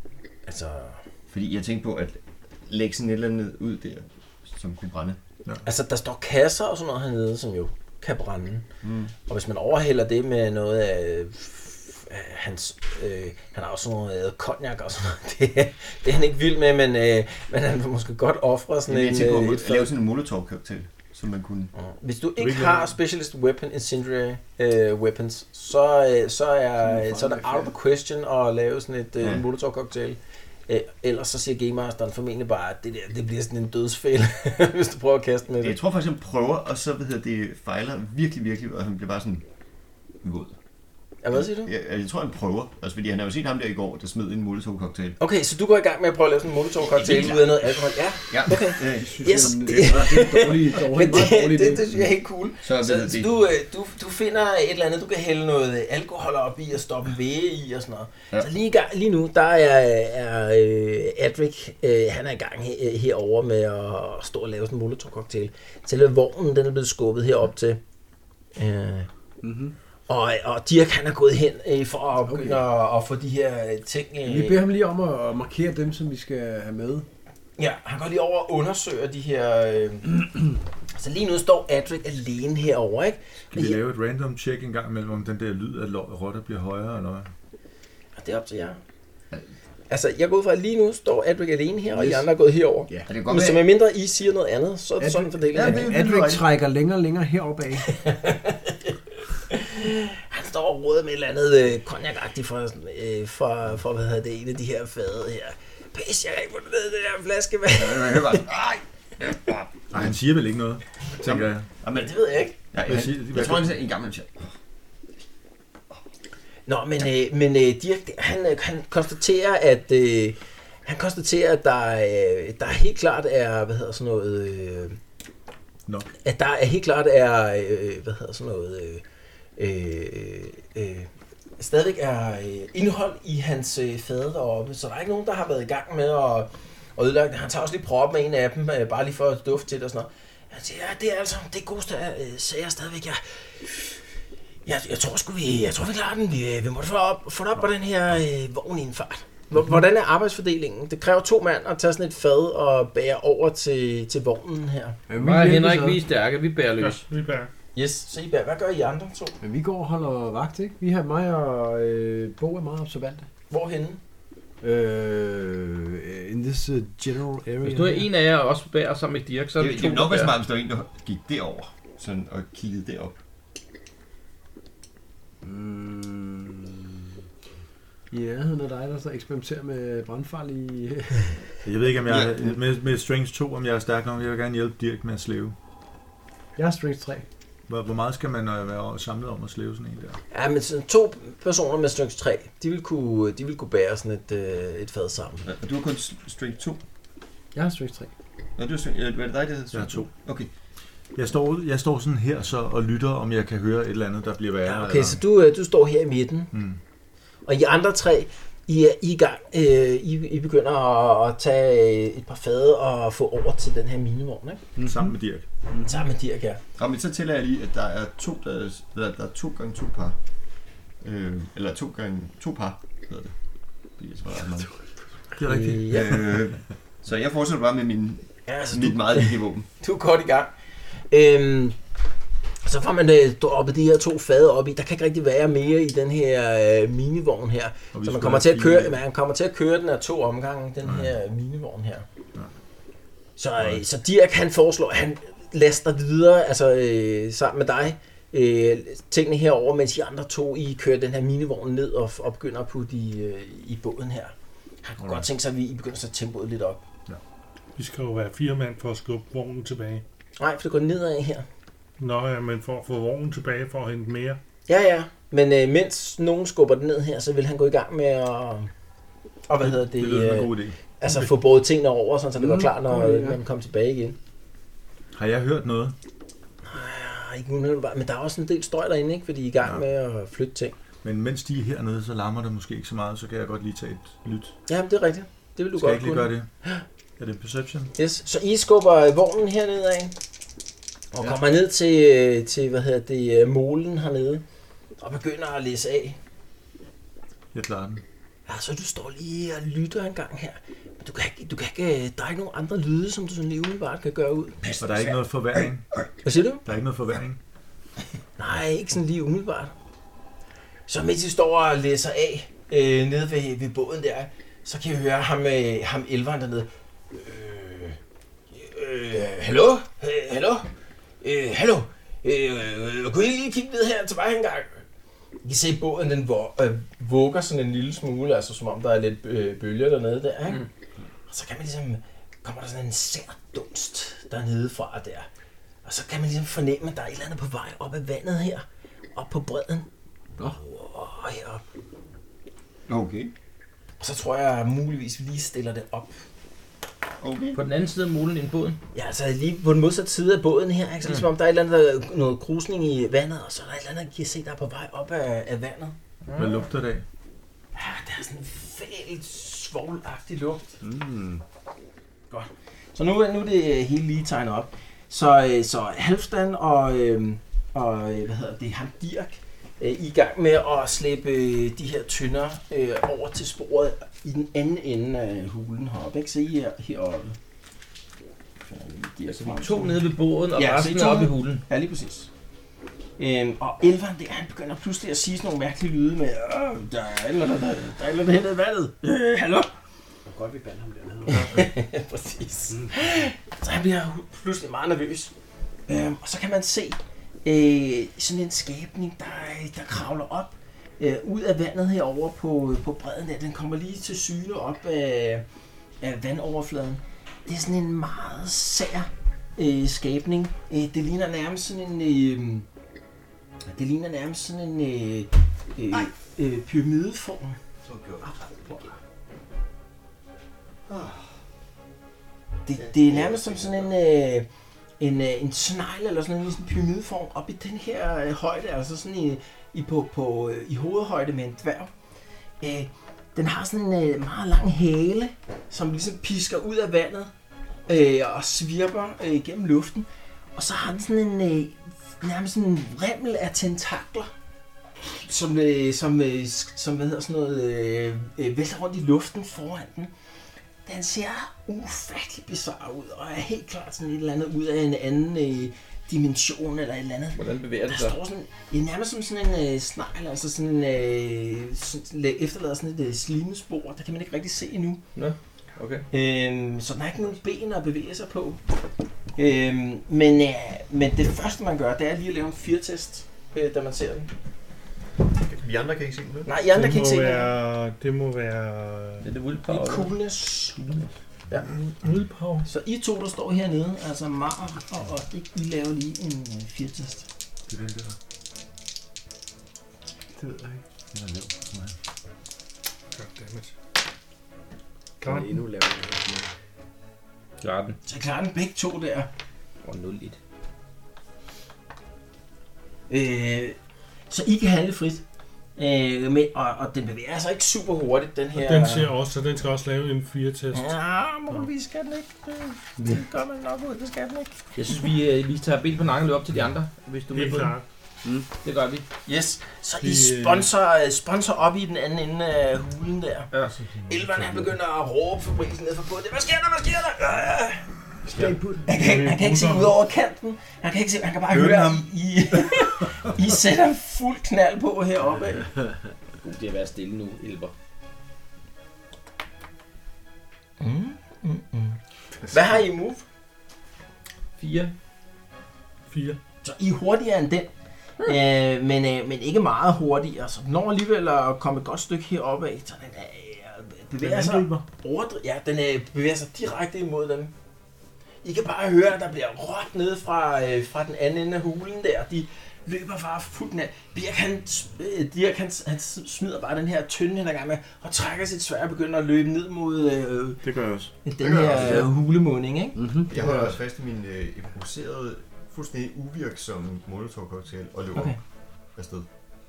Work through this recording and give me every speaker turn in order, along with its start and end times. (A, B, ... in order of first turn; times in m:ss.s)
0:00.4-0:01.0 A
0:01.3-0:05.2 B
0:05.6-0:08.7 A
0:08.8-0:09.1 B
0:09.3-0:19.9 A
0:18.9-0:21.7 B
0:21.8-0:35.8 A
0:22.4-0:23.0 C
0:26.8-0:27.7 D
0:35.6-0:39.4 B
0:40.2-0:40.6 B
0:41.2-0:41.7 A
0:41.3-0:45.2 B
0:45.2-1:07.8 A
0:46.8-0:49.4 B
0:48.9-0:52.0 D
0:52.6-0:53.3 B
1:08.6-1:09.1 A
1:09.4-1:09.7 D
1:10.1-1:14.6 A
1:12.3-1:12.6 D
1:14.2-1:17.1 D
1:17.6-1:20.2 A
1:21.0-1:23.8 A
1:23.5-1:27.3 C
1:28.2-1:28.8 A
1:29.9-1:35.9 A
1:32.0-1:32.2 D
1:32.9-1:33.1 D
1:33.0-1:33.6 B
1:35.0-1:37.9 D
1:35.5-1:36.4 B
1:37.9-1:48.4 A
1:47.7-1:50.1 B
1:49.9-1:51.7 C
1:51.2-1:52.1 B
1:51.9-1:52.6 A
1:52.7-1:54.5 B
1:52.9-1:53.8 C
1:56.7-2:05.0 A
2:05.9-2:06.1 C
2:06.2-2:09.0 A
2:09.6-2:24.0 A
2:24.7-2:35.0 A
2:35.1-2:36.0 D
2:35.2-2:37.0 E
2:36.8-2:37.5 F
2:37.7-2:39.4 A
2:39.4-2:43.3 D
2:43.5-2:44.0 A
2:44.6-2:48.1 D
2:47.6-2:50.3 E
2:49.6-2:53.2 B
2:55.4-2:56.9 D
2:58.1-3:01.4 D
3:01.6-3:05.6 C
3:02.0-3:02.6 B
3:06.6-3:07.3 D
3:07.7-3:10.2 C
3:10.3-3:15.4 A
3:15.4-3:16.8 B
3:17.5-3:18.1 D
3:18.6-3:20.5 B
3:19.7-3:20.1 C
3:21.1-3:25.2 C
3:24.6-3:26.5 A
3:26.5-3:26.8 C
3:27.4-3:34.6 A
3:34.8-3:35.0 D
3:34.8-3:35.5 C
3:35.7-3:36.0 D
3:35.8-3:36.6 A
3:36.8-3:40.2 B
3:41.0-3:43.4 B
3:44.0-3:44.7 B
3:45.4-3:46.2 C
3:45.4-3:46.3 A
3:45.9-3:49.7 B
3:48.5-3:50.5 A
3:51.1-3:51.8 A
3:52.6-4:02.0 A
3:57.9-3:59.0 C
4:00.8-4:01.1 C
4:03.4-4:16.8 A
4:15.0-4:15.3 C
4:17.8-4:20.0 F
4:20.4-4:21.5 A
4:22.0-4:24.4 F
4:24.7-4:28.7 A
4:29.5-4:34.2 A
4:29.6-4:30.9 C
4:32.4-4:33.4 D
4:35.1-4:36.0 C
4:36.6-4:40.8 A
4:41.0-4:44.6 C
4:44.7-4:46.8 A
4:45.7-4:46.5 C
4:47.2-4:47.9 C
4:48.0-4:50.1 A
4:51.1-4:54.4 A
4:55.0-4:56.2 A
4:57.5-4:58.0 C
4:58.5-5:05.2 A
5:04.8-5:05.9 C
5:06.2-5:06.8 A
5:06.6-5:07.4 C
5:08.4-5:09.7 A
5:10.9-5:18.0 A
5:18.5-5:20.7 A
5:21.2-5:24.8 A
5:25.4-5:30.6 A
5:31.3-5:35.3 A
5:35.8-5:39.9 A
5:40.4-5:41.6 A
5:42.9-5:43.3 B
5:44.0-5:46.2 A
5:47.2-5:47.6 B
5:47.6-5:48.8 E
5:48.9-5:56.0 A
5:56.3-5:56.6 E
5:56.4-5:57.0 C
5:57.7-6:00.8 A
6:02.3-6:17.4 A
6:18.7-6:22.3 A
6:19.3-6:21.6 E
6:23.2-6:29.7 A
6:30.3-6:31.7 D
6:31.3-6:35.3 A
6:35.9-6:45.4 A
6:46.0-6:52.7 A
6:53.7-6:57.6 A
6:57.8-6:58.8 B
6:58.2-6:59.0 A
7:00.9-7:01.3 B
7:02.7-7:04.5 A
7:02.8-7:03.9 B
7:05.0-7:11.9 A
7:12.6-7:17.3 A
7:17.9-7:24.3 A
7:25.0-7:30.1 A
7:30.9-7:45.0 A
7:37.4-7:38.2 E
7:45.1-7:46.0 E
7:46.1-7:48.6 A
7:49.4-7:54.3 A
7:55.4-7:56.5 B
7:56.5-7:57.5 A
7:56.7-7:59.3 F
7:59.2-8:00.2 E
7:59.7-8:00.8 A
8:00.7-8:01.1 E
8:01.6-8:02.7 F
8:02.6-8:07.3 A
8:07.7-8:08.2 C
8:10.4-8:10.8 D
8:11.1-8:12.0 C
8:13.1-8:13.7 F
8:15.2-8:16.5 D
8:15.2-8:15.6 F
8:17.6-8:18.0 E
8:18.0-8:19.3 A
8:19.8-8:20.4 E
8:23.1-8:23.8 A
8:24.3-8:25.2 A
8:25.8-8:29.1 A
8:28.5-8:30.9 F
8:30.7-8:34.7 A
8:34.7-8:37.8 E
8:37.3-8:37.8 F
8:38.5-8:39.0 E
8:39.3-8:43.5 A
8:40.0-8:40.7 F
8:43.5-8:43.8 E
8:44.0-8:47.9 A
8:48.2-8:49.0 D
8:48.9-8:55.7 A
8:48.9-8:50.0 F
8:51.5-8:52.0 C
8:56.4-8:57.7 E
9:00.8-9:03.2 A
9:04.6-9:04.9 E
9:06.1-9:06.4 F
9:06.6-9:07.7 A
9:08.2-9:17.5 A
9:14.2-9:14.9 C
9:18.4-9:30.7 A
9:30.6-9:31.1 C
9:31.2-9:33.8 A
9:31.4-9:32.1 B
9:31.8-9:32.0 D
9:33.0-9:33.3 D
9:33.3-9:38.4 B
9:39.0-9:39.3 B